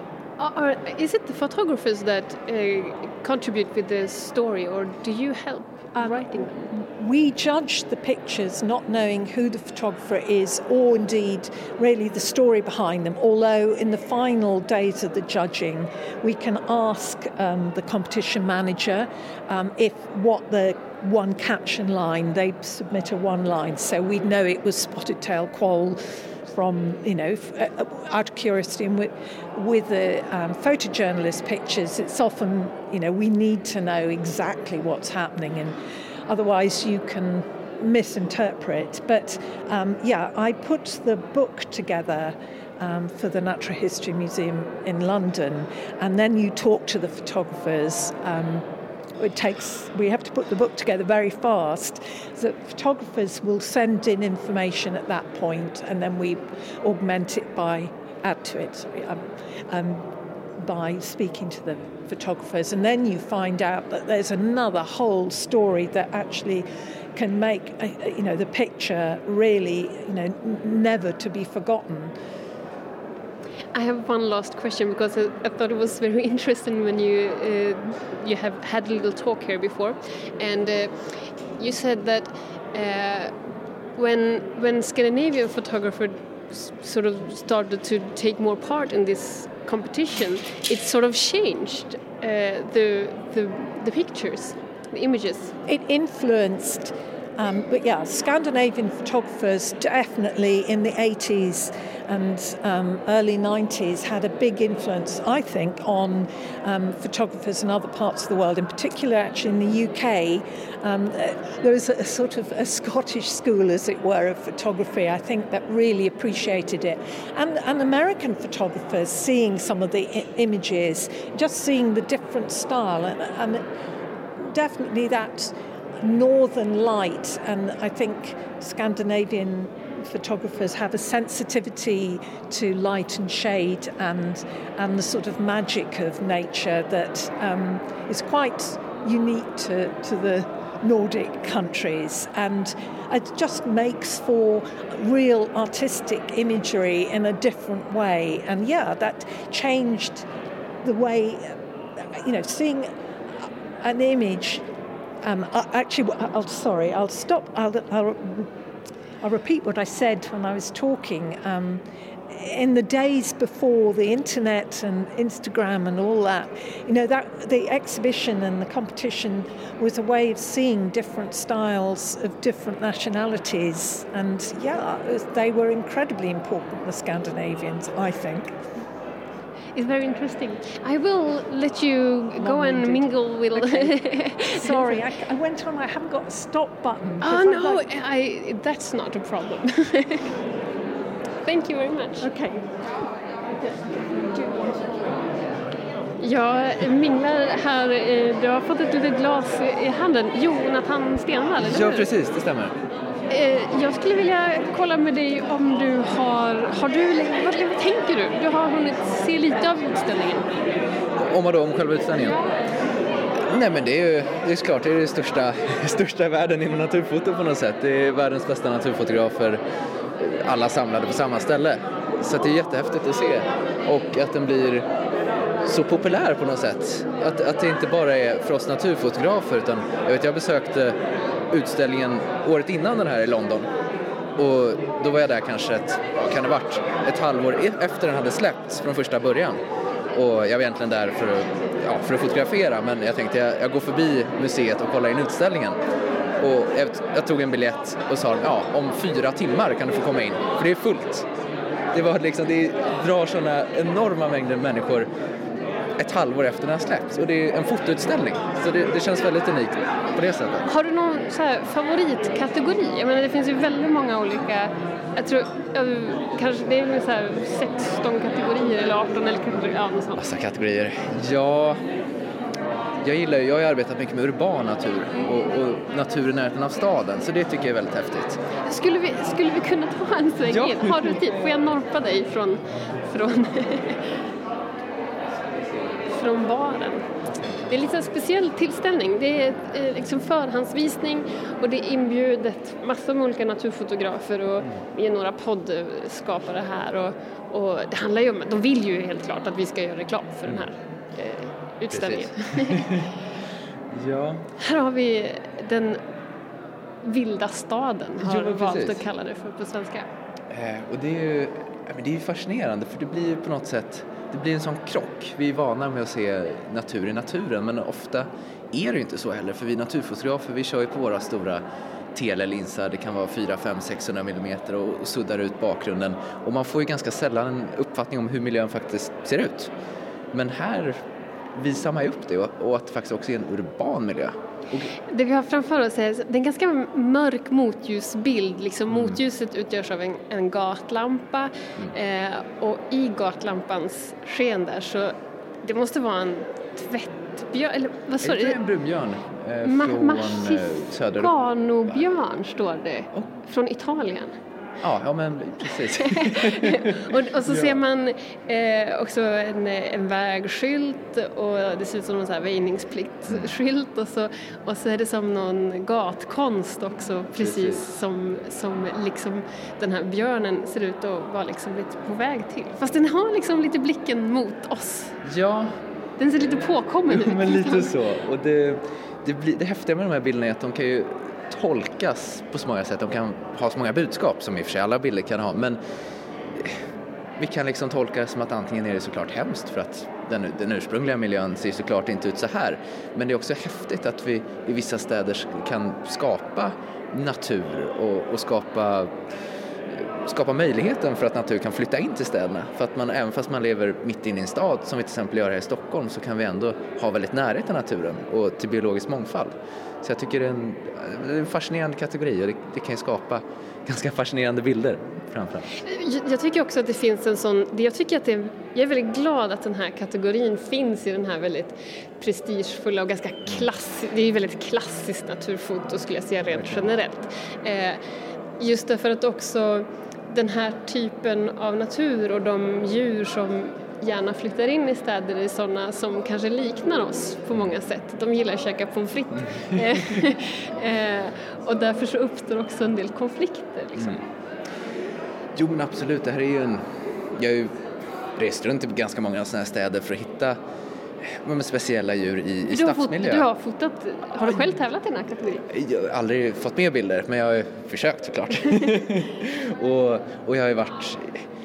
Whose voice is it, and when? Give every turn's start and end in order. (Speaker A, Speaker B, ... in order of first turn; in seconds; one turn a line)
Speaker A: 0.4-6.6
Speaker B: 5.9-72.1
Speaker A: 73.7-83.3
Speaker A: 84.0-95.5
Speaker B: 95.7-123.6
Speaker B: 124.4-150.3
Speaker B: 150.8-154.6
Speaker B: 155.2-158.5
Speaker B: 159.2-178.6
Speaker A: 179.7-184.8
Speaker B: 182.4-187.8
Speaker A: 187.2-190.3
Speaker A: 191.4-192.3
Speaker B: 192.2-192.6
Speaker A: 196.2-202.1
Speaker C: 201.6-202.8
Speaker A: 203.3-210.5
Speaker C: 211.2-212.4
Speaker C: 213.5-219.6
Speaker C: 220.2-224.9
Speaker C: 225.6-230.9
Speaker C: 231.5-233.7
Speaker C: 234.4-239.6
Speaker C: 240.1-245.8
Speaker C: 246.4-251.3
Speaker C: 251.9-255.1
Speaker C: 256.0-260.7
Speaker A: 260.6-270.2
Speaker C: 270.1-271.8
Speaker C: 273.0-278.4
Speaker A: 278.6-284.1
Speaker C: 280.5-281.2
Speaker A: 286.1-287.1
Speaker A: 287.7-302.9
Speaker C: 301.9-303.1
Speaker C: 303.9-304.4
Speaker A: 304.6-306.0
Speaker A: 307.0-310.1
Speaker C: 308.2-309.0
Speaker C: 310.5-321.6
Speaker C: 322.1-329.7
Speaker C: 330.3-331.0
Speaker C: 331.5-334.9
Speaker A: 335.1-348.6
Speaker C: 348.2-351.3
Speaker A: 349.6-354.3
Speaker C: 354.8-357.8
Speaker A: 356.0-375.2
Speaker C: 367.4-367.8
Speaker C: 375.2-375.7
Speaker A: 376.2-377.9
Speaker C: 377.1-385.8
Speaker C: 387.4-399.1
Speaker C: 399.9-415.8
Speaker A: 415.8-428.0
Speaker A: 428.6-444.2
Speaker C: 445.6-447.8
Speaker C: 448.4-450.6
Speaker C: 451.2-453.5
Speaker A: 452.6-455.6
Speaker C: 455.7-461.4